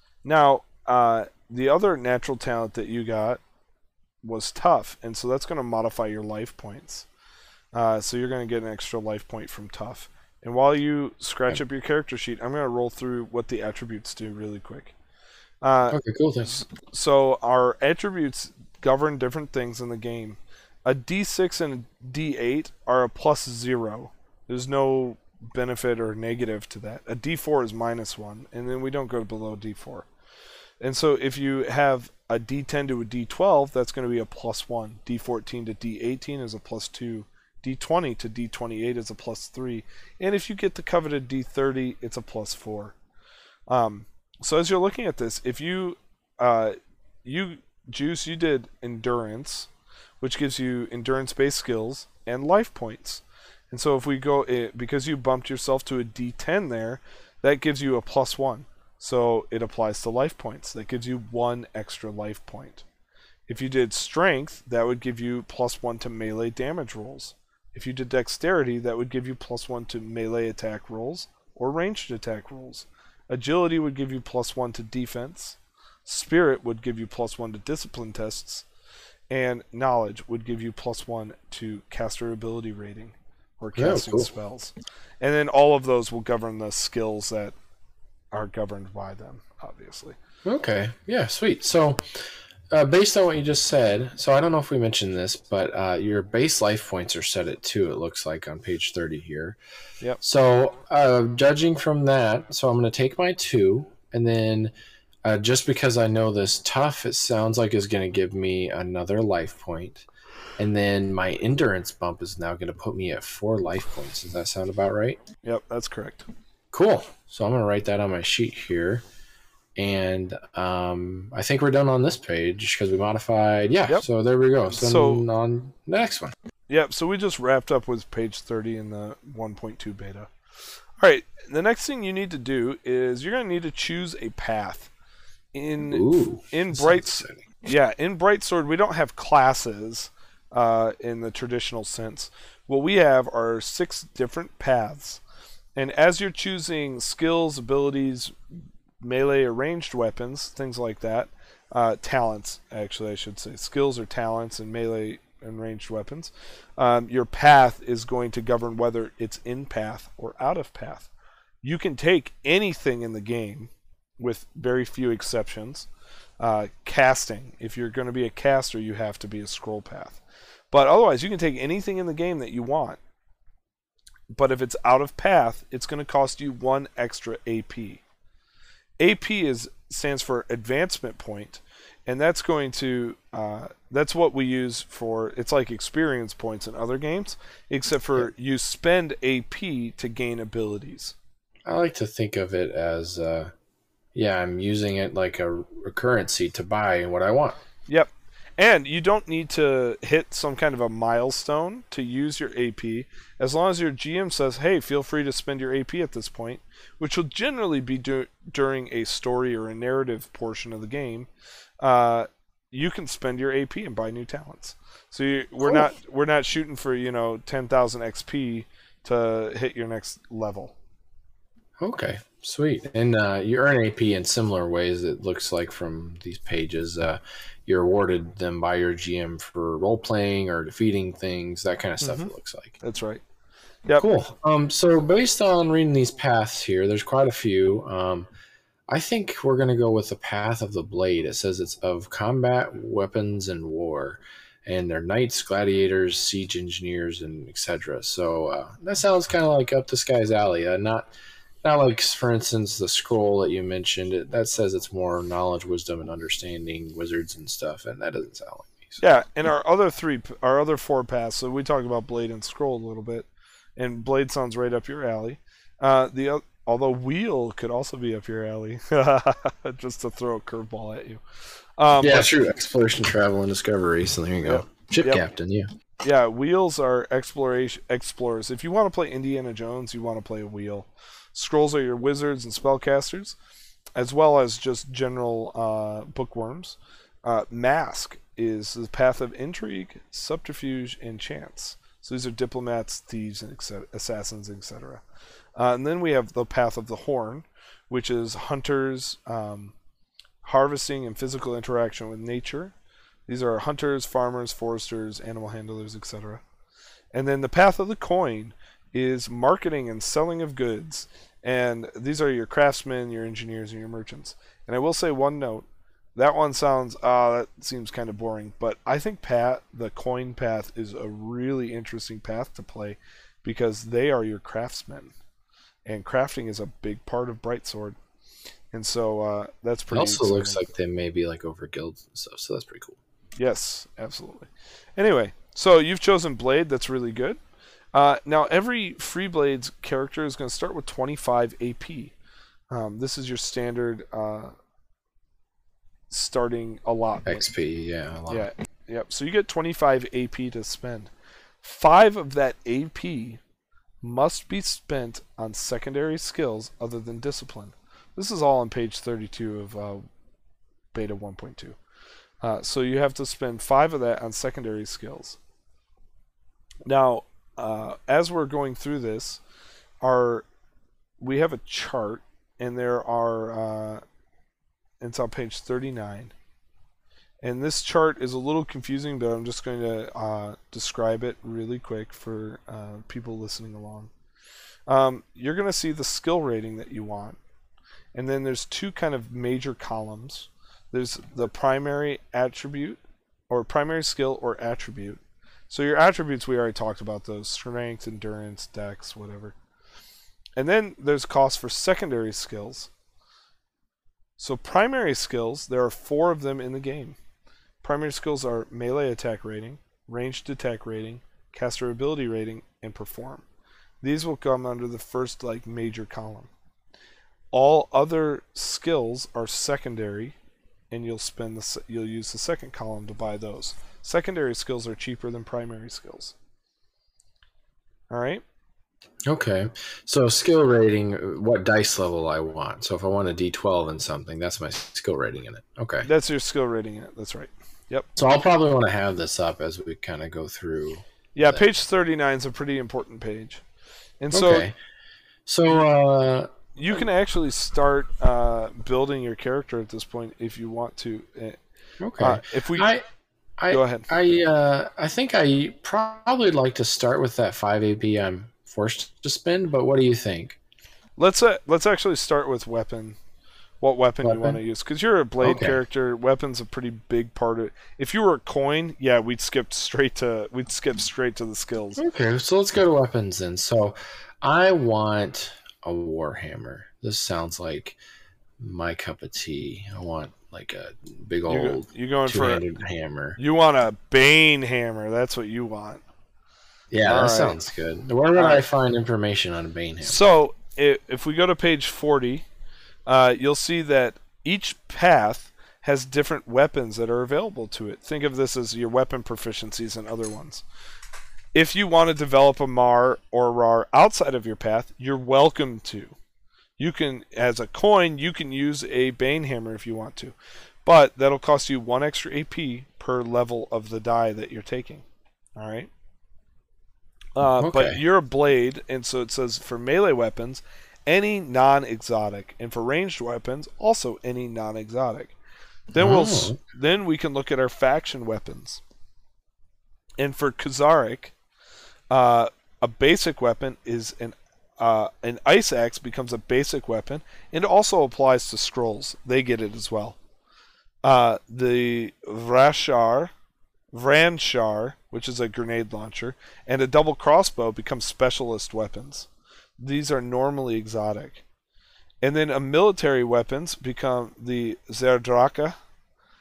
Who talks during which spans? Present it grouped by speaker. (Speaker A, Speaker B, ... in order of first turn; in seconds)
Speaker A: 0.2-3.4, 4.2-7.0, 7.7-14.9, 15.6-30.1, 30.8-43.0, 43.7-49.7, 50.2-62.8, 63.5-78.6, 79.3-87.5, 88.3-90.2, 115.4-116.2, 124.7-125.2, 126.7-130.3, 131.0-134.9, 135.5-145.2, 145.8-148.3, 149.0-161.1, 161.6-165.9, 166.4-173.0, 174.3-178.0, 179.0-191.2, 197.9-211.3, 211.8-220.7, 232.0-233.2, 259.0-271.2, 271.8-272.3, 274.4-275.2, 276.0-283.4, 283.9-295.0, 295.6-299.7, 300.4-302.7, 303.3-306.4, 307.1-325.1, 325.9-328.0, 328.7-330.6, 333.4-337.4, 337.9-342.1, 342.7-344.5, 346.1-347.5, 348.3-351.1, 351.6-353.4, 354.0-360.0, 360.9-361.8, 362.4-365.4, 366.9-369.4, 370.0-370.5, 371.2-374.0, 375.0-376.3, 377.4-384.1, 384.9-387.4, 388.1-399.5, 400.6-402.9, 404.4-407.2, 407.8-413.4, 414.0-416.5, 417.5-420.4, 420.9-426.3, 428.1-428.4, 436.0-438.1, 441.3-443.6, 444.2-444.6, 446.8-451.6, 452.2-452.9, 453.7-454.1, 461.2-463.2, 463.8-472.0, 481.5-482.6, 483.4-486.0, 487.0-487.6, 488.3-488.6, 490.0-492.4, 493.1-500.6, 501.5-506.1, 506.8-510.3, 510.9-515.0, 515.5-515.9, 517.4-525.4, 525.9-528.8, 530.2-531.3, 532.1-540.2, 541.0-543.3, 543.9-551.4, 552.2-555.8
Speaker B: 15.9-16.6, 83.8-84.3, 90.4-99.6, 100.2-104.7, 105.2-110.1, 110.6-115.2, 116.7-119.0, 119.8-126.3, 135.8-137.4, 191.7-193.5, 194.1-197.6, 215.6-215.9, 221.8-232.8, 234.0-238.3, 238.9-251.1, 251.6-259.0, 272.0-275.7, 329.9-333.0, 347.2-348.5, 429.3-436.1, 438.1-441.6, 444.3-444.7, 445.4-446.5, 452.0-453.0, 453.6-460.6, 464.2-464.6, 465.4-465.8, 472.0-478.0, 478.6-483.4, 486.9-490.2, 517.6-518.0, 526.0-526.6